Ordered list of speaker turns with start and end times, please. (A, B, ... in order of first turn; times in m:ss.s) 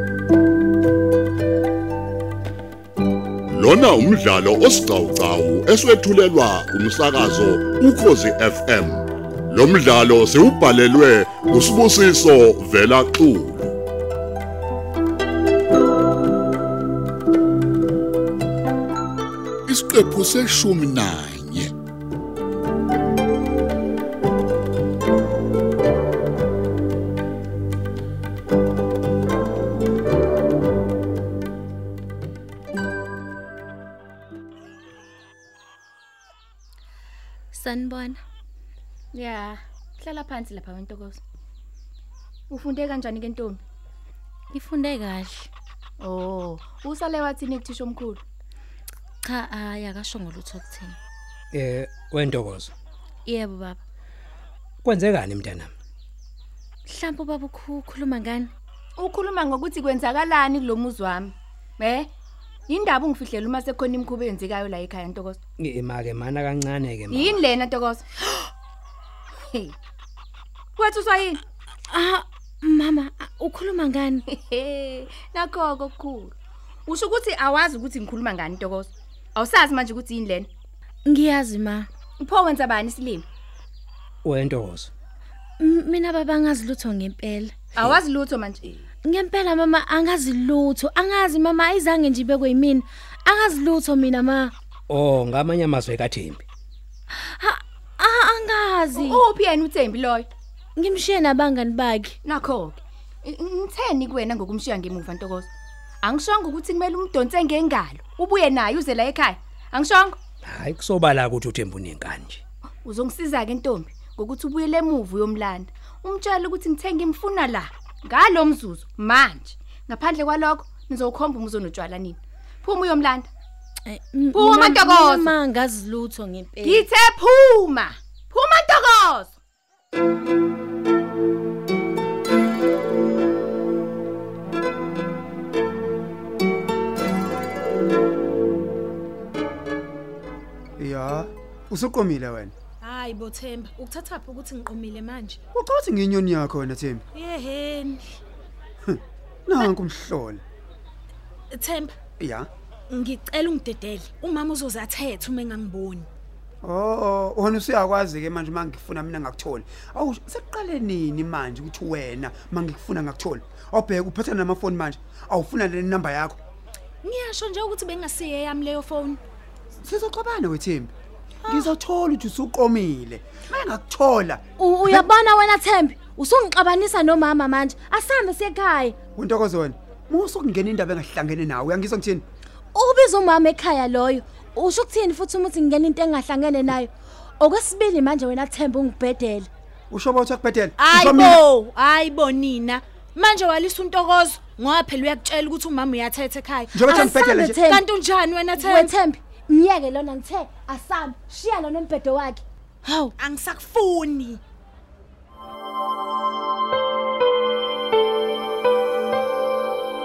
0:03.5-0:13.8 A
0:19.7-0:21.7 A
0:37.5-0:38.2 B
0:39.1-0:41.2 C
0:42.5-0:43.6 C
0:44.5-0:45.5 B
0:46.0-0:48.2 C
0:49.2-0:51.0 B
0:51.5-0:52.7 D
0:53.3-0:53.8 B
0:54.8-0:55.7 D
0:56.9-0:58.5 B
0:59.0-1:02.1 C
1:02.7-1:05.4 C
1:05.6-1:07.4 D
1:07.1-1:08.4 C
1:09.4-1:09.7 C
1:10.8-1:11.4 C
1:11.9-1:14.2 B
1:14.3-1:16.3 C
1:16.9-1:20.5 C
1:21.1-1:21.9 B
1:22.2-1:23.2 C
1:24.2-1:24.9 D
1:25.6-1:27.6 B
1:27.8-1:28.8 C
1:29.0-1:34.5 B
1:34.9-1:36.4 D
1:37.1-1:39.2 B
1:38.9-1:40.3 C
1:40.8-1:42.2 B
1:42.2-1:45.5 C
1:46.0-1:50.2 C
1:50.4-1:52.4 D
1:52.8-2:03.3 C
2:03.9-2:06.9 B
2:04.3-2:05.3 C
2:06.6-2:09.4 C
2:20.8-2:22.5 E
2:22.8-2:25.4 F
2:25.5-2:27.0 E
2:27.1-2:28.2 F
2:28.8-2:30.4 E
2:31.5-2:32.0 F
2:32.2-2:32.5 E
2:32.9-2:36.1 F
2:36.6-2:46.4 E
2:47.0-2:49.2 F
2:49.8-2:50.9 E
2:51.4-2:51.7 F
2:51.5-2:55.1 E
2:54.6-2:59.0 B
2:59.2-3:02.2 E
3:02.7-3:09.5 B
3:09.9-3:11.4 E
3:10.8-3:18.9 F
3:16.7-3:17.6 E
3:17.4-3:17.8 B
3:18.6-3:22.4 B
3:22.8-3:24.4 F